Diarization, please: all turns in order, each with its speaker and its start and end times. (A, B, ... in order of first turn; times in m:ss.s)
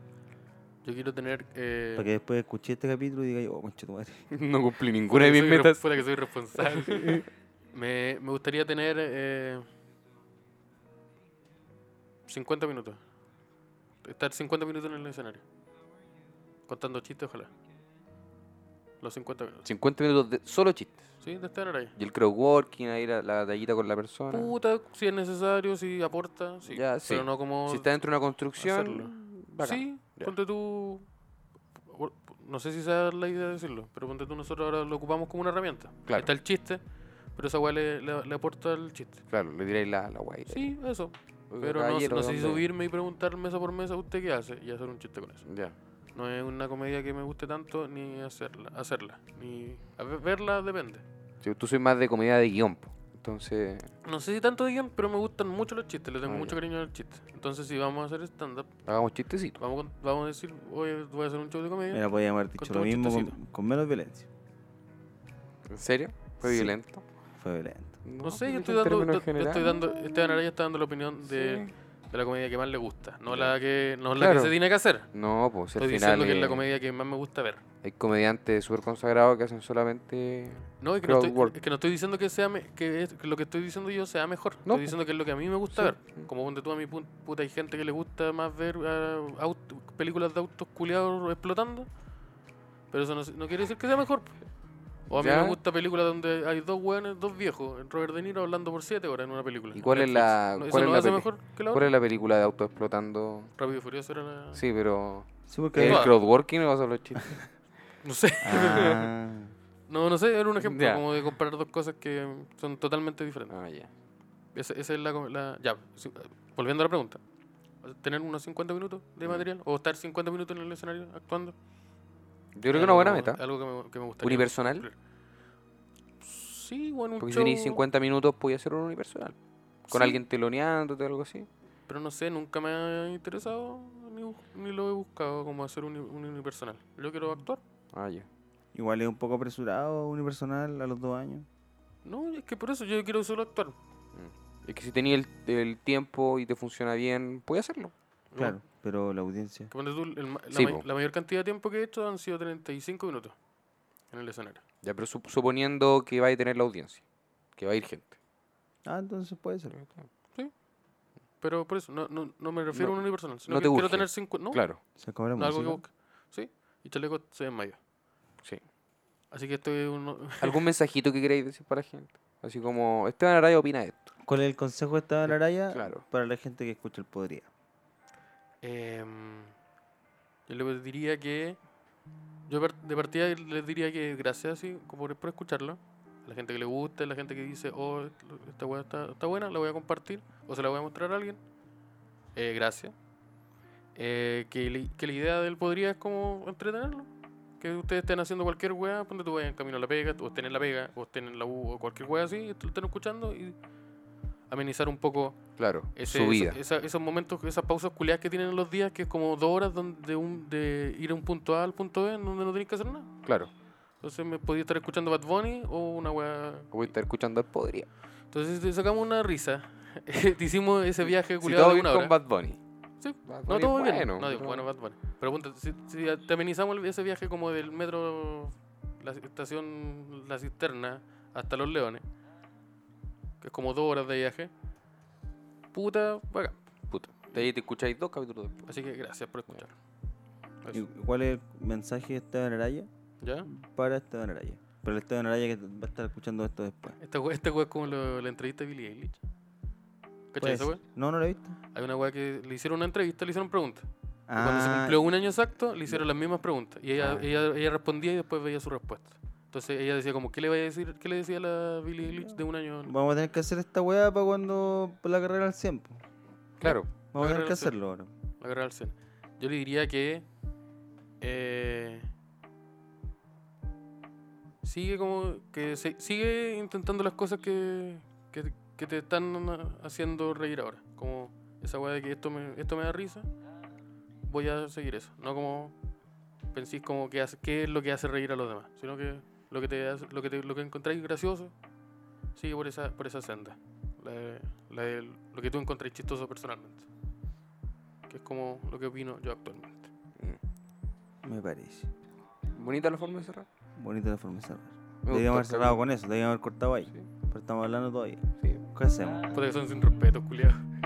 0:00.8-0:02.1 A
0:02.0-0:04.3 B
0:04.3-0:05.8 C
0:05.1-0:09.6 A
0:06.8-0:07.2 C
0:12.3-0:13.0 A
0:14.0-0:15.4 A
0:16.7-0:17.5 A
0:19.0-0:19.6 A
0:19.6-0:21.1 C
0:21.2-0:21.9 A
0:22.0-0:24.5 C
0:24.3-0:27.9 A
0:26.7-0:30.3 C
0:28.6-0:31.1 A
0:31.8-0:36.8 A
0:37.3-0:39.2 A
0:39.3-0:40.7 C
0:40.5-0:45.4 A
0:41.5-0:42.6 C
0:45.4-0:45.7 C
0:46.1-0:51.0 A
0:51.4-0:53.9 C
0:54.0-0:58.7 A
0:56.3-0:56.6 C
0:58.8-0:59.6 C
0:59.6-1:02.0 A
1:01.9-1:04.3 B
1:02.6-1:03.3 A
1:05.7-1:07.0 C
1:06.4-1:06.7 B
1:07.4-1:08.0 B
1:08.0-1:10.4 C
1:08.2-1:15.1 A
1:11.2-1:11.7 C
1:13.3-1:13.6 C
1:14.1-1:14.6 C
1:15.1-1:16.6 C
1:15.8-1:17.6 A
1:17.8-1:21.5 C
1:20.8-1:31.9 A
1:24.7-1:25.0 C
1:25.7-1:26.3 C
1:32.9-1:34.4 A
1:35.1-1:41.9 A
1:35.1-1:35.6 C
1:39.7-1:43.5 C
1:43.6-1:44.6 A
1:44.5-1:47.4 C
1:45.5-1:46.1 B
1:45.8-1:46.1 A
1:48.0-1:49.1 A
1:48.4-1:49.5 B
1:49.9-1:53.5 A
1:50.6-1:51.0 C
1:53.5-1:53.9 C
1:54.5-1:57.2 A
1:57.8-2:01.5 A
2:02.5-2:03.4 C
2:02.7-2:05.0 A
2:04.2-2:04.8 C
2:06.2-2:07.8 A
2:07.2-2:09.4 C
2:09.9-2:10.2 A
2:09.9-2:11.5 C
2:11.9-2:17.6 A
2:17.9-2:18.3 C
2:18.7-2:21.5 B
2:22.0-2:23.8 A
2:24.1-2:27.9 C
2:28.3-2:28.6 A
2:28.4-2:29.7 B
2:29.7-2:33.4 A
2:30.5-2:30.8 C
2:34.1-2:34.6 A
2:34.8-2:37.0 C
2:37.6-2:38.1 C
2:38.8-2:39.8 B
2:41.4-2:44.6 A
2:42.7-2:44.8 C
2:45.0-2:45.8 B
2:45.4-2:47.8 A
2:49.3-2:50.6 A
2:50.4-2:54.1 C
2:54.2-2:57.5 B
2:55.7-2:56.0 C
2:58.6-2:59.5 A
3:00.5-3:01.6 A
3:02.5-3:11.4 A
3:12.4-3:12.9 A
3:14.0-3:23.6 A
3:24.5-3:33.1 A
3:25.6-3:26.6 C
3:33.2-3:33.5 C
3:34.0-3:36.9 A
3:36.7-3:37.9 C
3:38.3-3:42.1 A
3:41.1-3:42.6 C
3:43.0-3:52.0 A
3:43.2-3:44.7 C
3:53.4-3:54.5 A
3:55.7-3:56.6 A
3:56.9-3:58.7 C
3:58.7-3:59.7 A
4:00.7-4:02.9 B
4:03.2-4:03.5 A
4:03.5-4:07.0 B
4:07.0-4:09.2 A
4:10.3-4:10.8 A
4:10.4-4:11.6 B
4:11.7-4:13.8 A
4:14.3-4:15.0 B
4:14.4-4:22.9 A
4:17.0-4:17.2 C
4:22.1-4:26.0 B
4:26.6-4:26.9 C
4:26.6-4:28.1 B
4:27.2-4:27.7 A
4:28.4-4:30.3 A
4:31.2-4:32.1 A
4:34.6-4:43.3 A
4:44.2-4:45.7 A
4:46.5-4:51.5 A
4:52.3-4:56.8 A
4:58.1-4:59.9 A
5:01.2-5:01.9 B
5:02.5-5:03.4 C
5:03.8-5:09.3 B
5:05.0-5:05.8 C
5:09.3-5:10.6 A